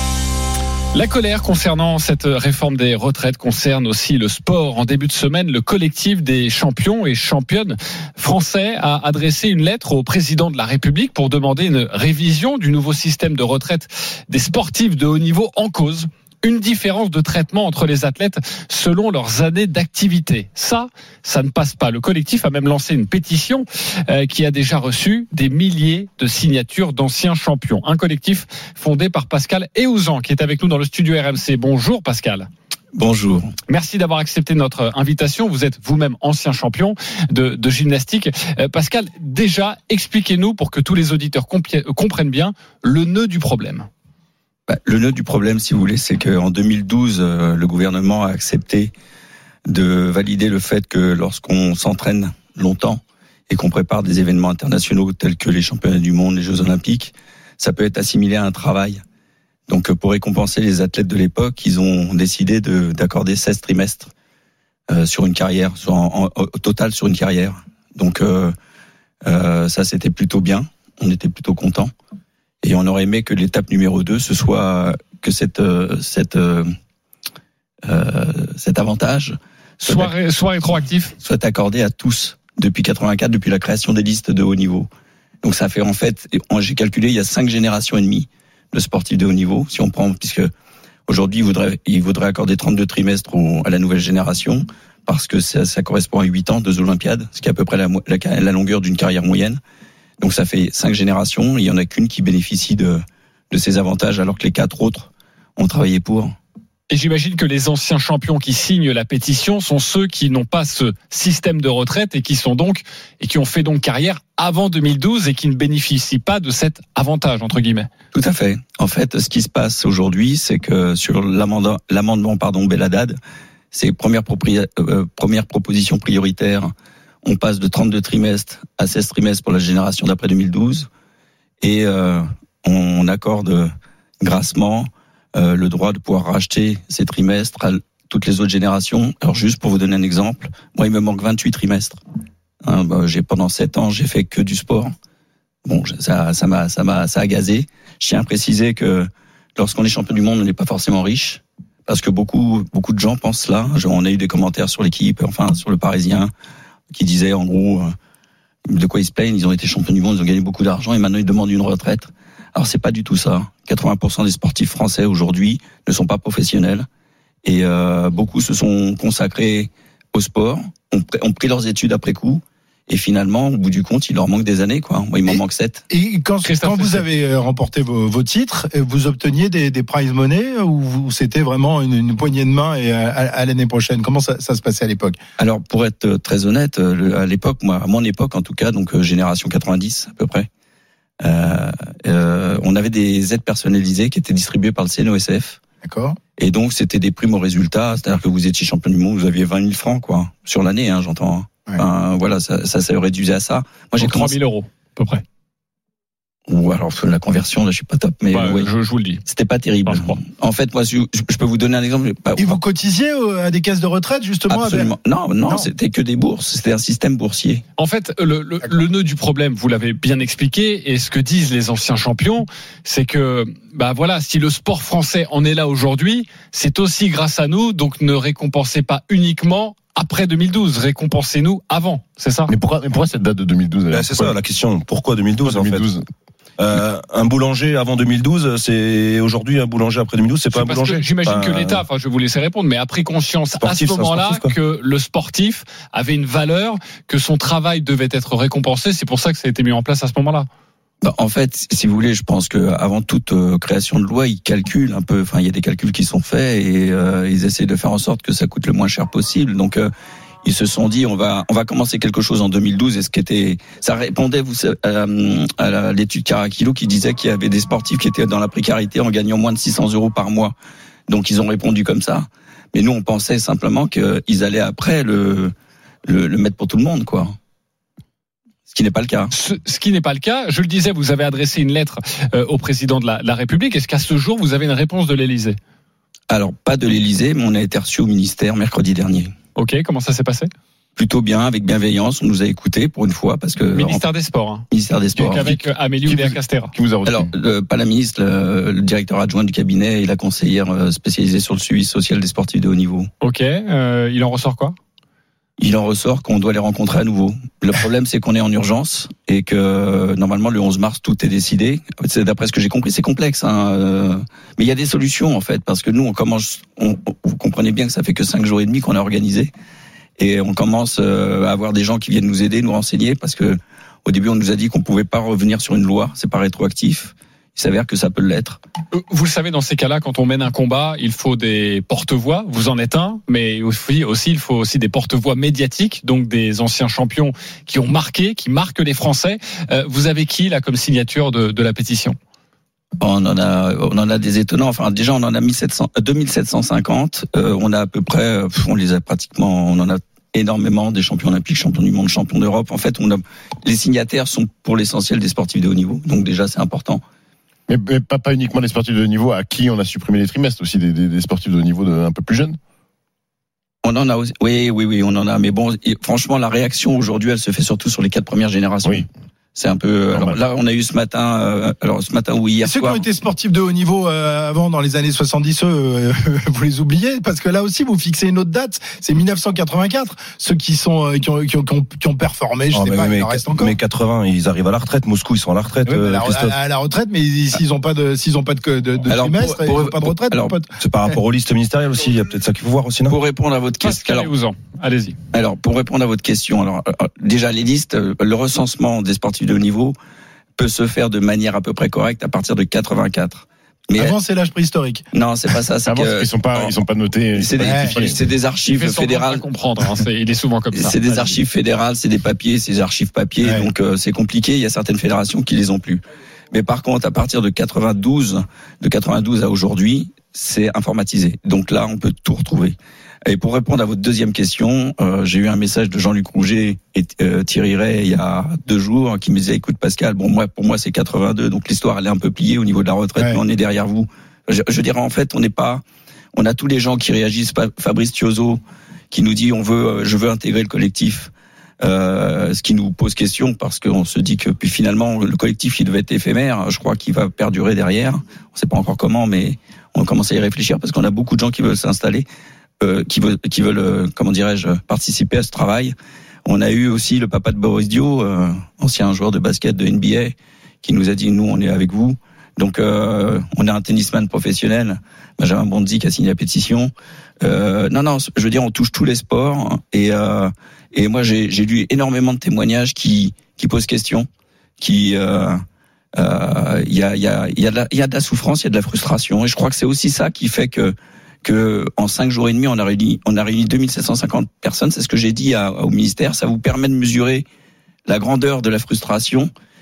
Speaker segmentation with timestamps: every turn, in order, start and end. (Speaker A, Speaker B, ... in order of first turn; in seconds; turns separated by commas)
Speaker A: 0.9-32.5, Speaker B: 32.9-33.5, Speaker A: 33.7-43.9, Speaker B: 44.7-48.9, Speaker B: 49.7-59.0, Speaker B: 59.7-64.1, Speaker B: 64.9-68.5, Speaker B: 69.2-71.9, Speaker B: 72.6-76.7, Speaker B: 77.9-80.1, Speaker A: 79.8-81.1, Speaker B: 81.2-84.9, Speaker B: 85.4-90.5, Speaker B: 91.1-99.6, Speaker B: 100.2-106.3, Speaker A: 106.9-117.9, Speaker B: 118.1-123.2, Speaker B: 123.7-126.7, Speaker B: 127.2-130.9, Speaker B: 131.6-142.0, Speaker B: 142.6-144.9, Speaker B: 145.7-156.3, Speaker B: 156.9-157.9, Speaker B: 158.7-166.9, Speaker B: 167.4-175.8, Speaker C: 175.3-185.2, Speaker A: 176.4-177.1, Speaker B: 185.4-190.5, Speaker B: 191.2-195.6, Speaker C: 195.8-196.2, Speaker B: 196.4-204.4, Speaker A: 204.0-205.2, Speaker B: 206.5-208.7, Speaker A: 208.3-209.2, Speaker B: 209.2-212.6, Speaker A: 209.8-210.2, Speaker C: 212.4-214.9, Speaker B: 214.5-217.6, Speaker A: 217.8-232.5, Speaker D: 232.5-234.3, Speaker E: 233.9-235.9, Speaker D: 235.4-236.0, Speaker E: 236.6-241.8, Speaker A: 240.5-250.5, Speaker E: 243.6-244.5, Speaker B: 251.0-259.9, Speaker B: 260.4-270.6, Speaker B: 271.1-275.5, Speaker B: 276.1-277.4, Speaker B: 278.7-279.3, Speaker A: 279.3-285.6, Speaker B: 286.3-289.3, Speaker A: 289.6-290.5, Speaker B: 291.0-294.0, Speaker A: 293.7-296.7, Speaker B: 294.7-295.6, Speaker D: 296.0-297.3, Speaker B: 297.1-303.1, Speaker A: 303.2-304.8, Speaker B: 305.6-319.5, Speaker B: 320.2-328.6, Speaker A: 328.9-342.2, Speaker B: 343.0-357.0, Speaker D: 357.7-362.6, Speaker B: 363.8-373.0, Speaker C: 372.6-383.8, Speaker E: 382.7-386.6, Speaker C: 385.9-390.7, Speaker B: 389.1-390.6, Speaker E: 390.8-393.2, Speaker B: 393.1-394.3, Speaker A: 393.8-395.2, Speaker B: 395.3-400.0, Speaker B: 400.6-404.2, Speaker C: 404.0-405.0, Speaker B: 405.1-406.7, Speaker D: 405.9-408.2, Speaker B: 407.4-409.4, Speaker C: 407.6-408.0, Speaker A: 408.6-411.4, Speaker B: 410.7-435.8, Speaker C: 413.4-413.7, Speaker B: 436.3-452.3, Speaker B: 452.8-455.9, Speaker B: 456.5-474.3, Speaker B: 474.8-475.6, Speaker B: 476.2-487.5, Speaker B: 488.1-489.5